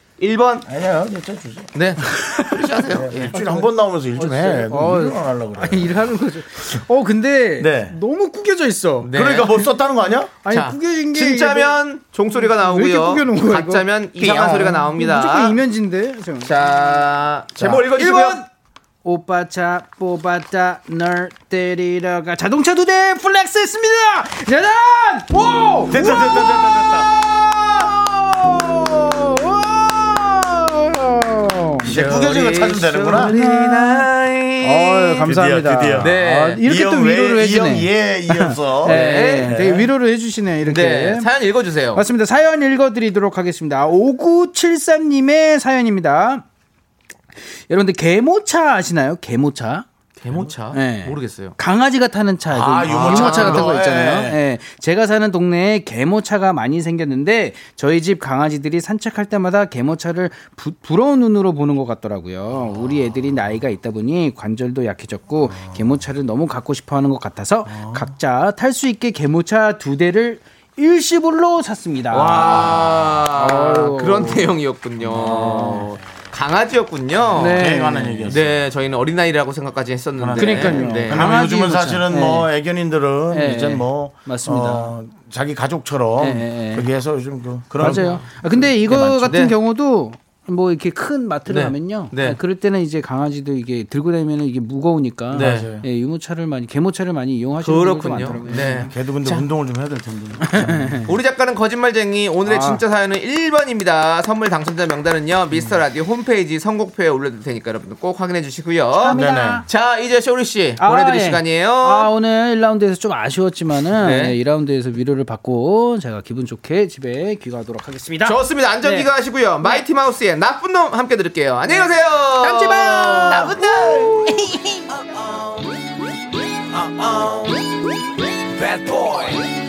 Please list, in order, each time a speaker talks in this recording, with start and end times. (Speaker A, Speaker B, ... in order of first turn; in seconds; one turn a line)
Speaker A: 0.2-0.7
Speaker B: 0.7-1.7
Speaker A: 1.7-3.3
Speaker C: 2.2-2.5
Speaker B: 2.9-6.0
Speaker C: 3.3-9.1
Speaker B: 7.6-8.0
Speaker A: 9.0-9.6
Speaker B: 9.1-10.3
Speaker C: 10.4-11.8
Speaker A: 10.5-15.6
Speaker C: 12.3-17.1
Speaker A: 16.4-18.4
Speaker C: 17.6-18.5
Speaker C: 19.0-31.9
Speaker B: 25.9-27.1
Speaker B: 31.8-33.3
Speaker A: 31.9-35.3
Speaker C: 33.1-34.1
Speaker C: 34.6-41.3
Speaker B: 35.2-39.9
Speaker A: 36.0-36.6
Speaker A: 38.8-39.5
Speaker A: 40.6-42.0
Speaker C: 41.9-46.4
Speaker C: 47.7-49.9
Speaker A: 50.2-51.5
Speaker C: 50.7-74.5
Speaker B: 52.5-54.4
Speaker A: 52.9-53.7
Speaker B: 67.7-68.0
Speaker A: 72.1-81.3
Speaker C: 75.1-75.8
Speaker C: 77.3-78.3
Speaker B: 77.4-78.6
Speaker B: 80.2-89.3
Speaker C: 80.3-82.5
Speaker C: 83.3-84.9
Speaker C: 86.2-86.9
Speaker C: 87.8-98.9
Speaker A: 87.8-88.3
Speaker A: 89.2-89.5
Speaker A: 91.5-92.4
Speaker A: 95.3-95.7
Speaker B: 95.3-95.8
Speaker A: 97.6-99.4
Speaker B: 98.9-101.1
Speaker C: 100.5-101.1
Speaker A: 101.0-112.1
Speaker C: 102.4-102.8
Speaker C: 109.0-109.7
Speaker B: 109.1-109.6
Speaker C: 110.8-119.1
Speaker A: 114.0-114.4
Speaker A: 118.2-123.5
Speaker C: 122.4-124.6
Speaker B: 123.2-124.4
Speaker B: 126.7-127.5
Speaker B: 128.6-129.3